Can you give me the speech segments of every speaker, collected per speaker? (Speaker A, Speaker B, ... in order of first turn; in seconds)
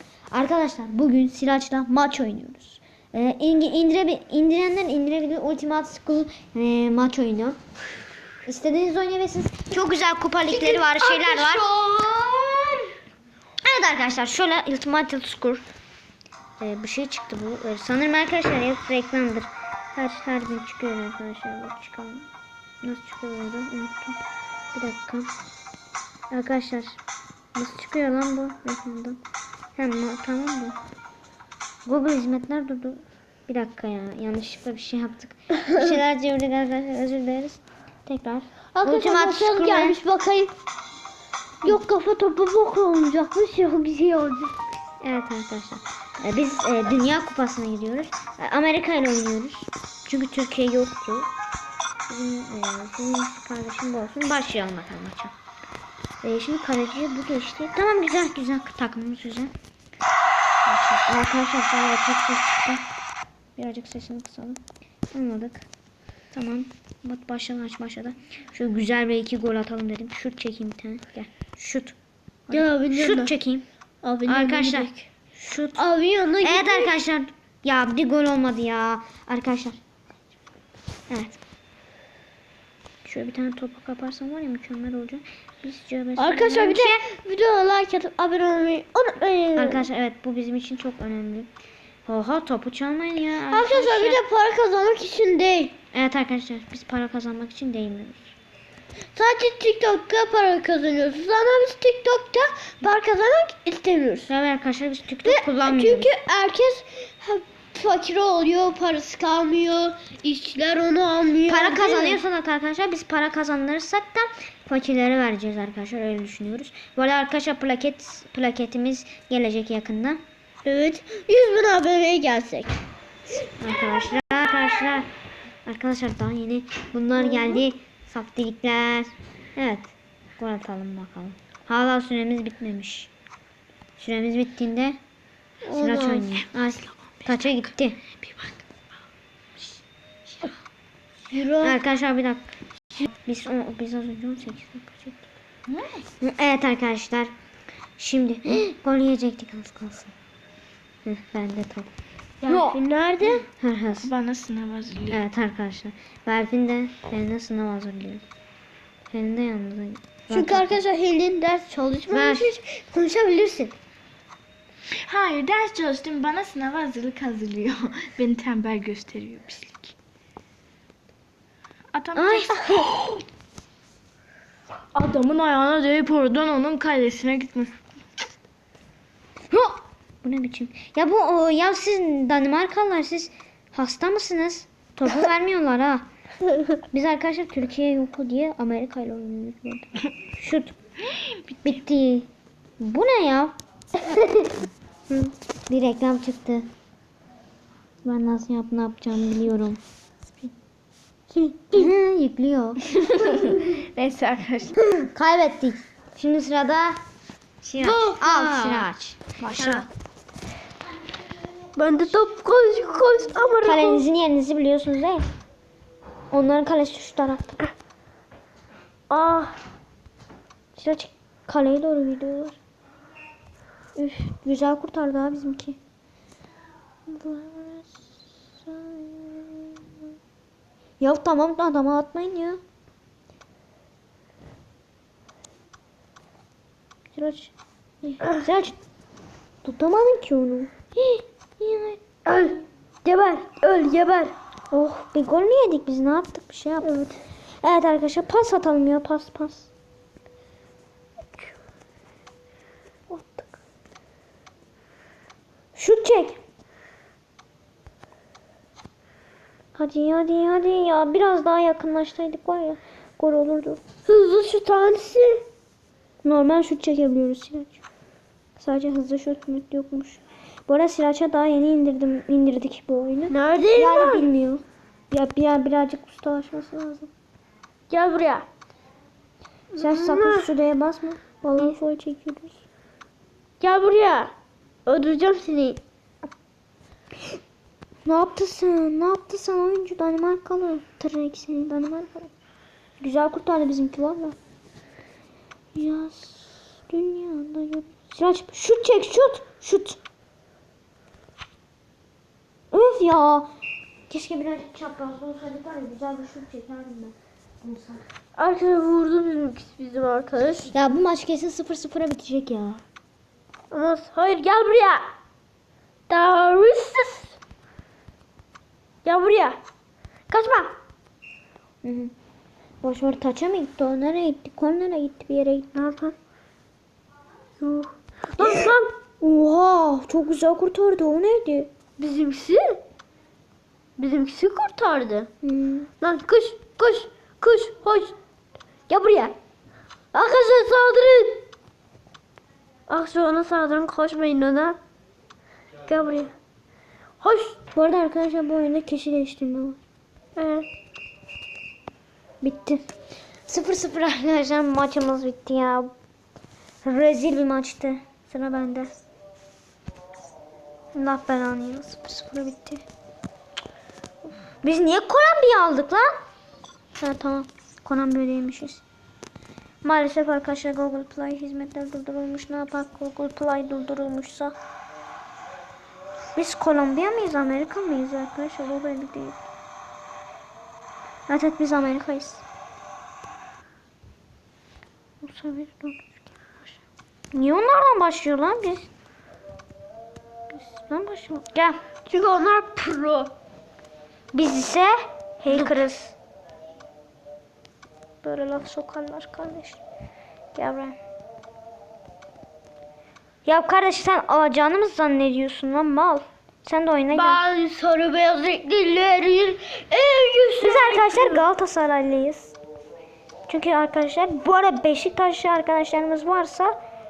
Speaker A: 0.3-7.6, 8.4-11.6, 13.6-15.6, 16.6-22.3, 22.8-24.2, 24.7-25.3, 26.3-27.0, 27.5-29.2, 29.8-30.8, 31.9-40.0, 45.0-51.3, 52.1-55.3, 56.2-59.5, 60.6-62.8, 63.5-64.6, 65.1-65.7, 66.3-72.0, 72.5-73.6, 74.3-75.8, 76.4-79.8, 81.1-81.4, 83.0-87.1, 89.5-91.5, 92.1-94.2, 95.9-98.3, 104.3-106.1, 111.5-120.2, 123.6-125.1, 125.7-133.1, 134.0-135.0, 135.7-138.0, 141.6-142.5, 143.0-145.2, 146.2-147.3, 148.0-150.1, 151.0-151.9, 152.5-152.8, 153.6-154.1, 155.1-158.2, 159.1-160.8, 162.1-163.7, 172.1-172.8, 179.5-186.1, 186.9-190.7, 191.6-192.3, 192.8-193.5, 195.1-196.7, 198.0-199.8, 201.7-202.8, 205.1-207.0, 207.6-209.7, 213.6-215.2, 216.3-217.7, 220.8-222.6, 224.0-225.8, 227.1-229.8, 231.0-232.6, 237.1-238.8, 239.6-240.7, 241.6-242.0, 244.7-246.9, 247.6-249.7, 253.1-253.5, 255.8-256.4, 259.7-263.8, 266.2-267.8, 268.6-277.1, 279.7-282.6, 288.1-292.3, 293.0-294.4, 295.7-300.0, 302.7-303.5, 304.1-308.0, 310.7-312.8, 321.8-322.1, 322.8-325.9, 328.4-328.7, 329.2-331.7, 335.4-335.9, 347.7-349.8, 352.4-352.8, 353.5-355.9, 356.8-358.9, 360.9-362.8, 364.6-366.0, 367.0-368.8, 369.8-374.5, 376.3-379.4, 381.3-382.4, 385.2-386.8, 387.3-388.9, 390.5-391.8, 394.3-396.1, 398.2-399.8, 400.5-401.0, 403.4-407.4, 410.6-412.6, 413.5-416.7
Speaker B: 10.5-12.9, 38.7-40.5, 41.6-44.6, 72.5-73.3, 74.0-75.1, 75.8-76.9, 86.2-89.8, 93.5-95.7, 99.1-104.3, 105.2-112.2, 120.6-122.8, 127.2-127.6, 135.6-136.3, 141.3-141.8, 152.4-153.4, 160.3-162.6, 194.1-194.4, 201.3-201.9, 203.2-203.6, 207.8-208.9, 209.4-209.8, 211.7-214.0, 219.1-219.5, 240.9-241.2, 242.2-244.3, 246.8-247.1, 264.1-265.4, 273.3-274.2, 277.9-278.4, 279.8-280.5, 283.6-284.3, 284.9-285.8, 308.4-310.7, 313.7-315.1, 316.1-317.3, 319.0-319.6, 320.3-320.7, 325.8-326.1, 327.6-328.9, 332.0-332.8, 334.0-335.3, 336.0-338.1, 338.9-339.3, 340.1-341.4, 342.9-344.8, 345.9-346.3, 347.2-347.6, 350.4-350.6, 392.1-393.3, 407.1-411.4
Speaker C: 138.2-138.5, 154.0-155.2, 165.0-169.9, 171.9-172.9, 174.9-177.7, 202.9-204.8, 209.4-209.9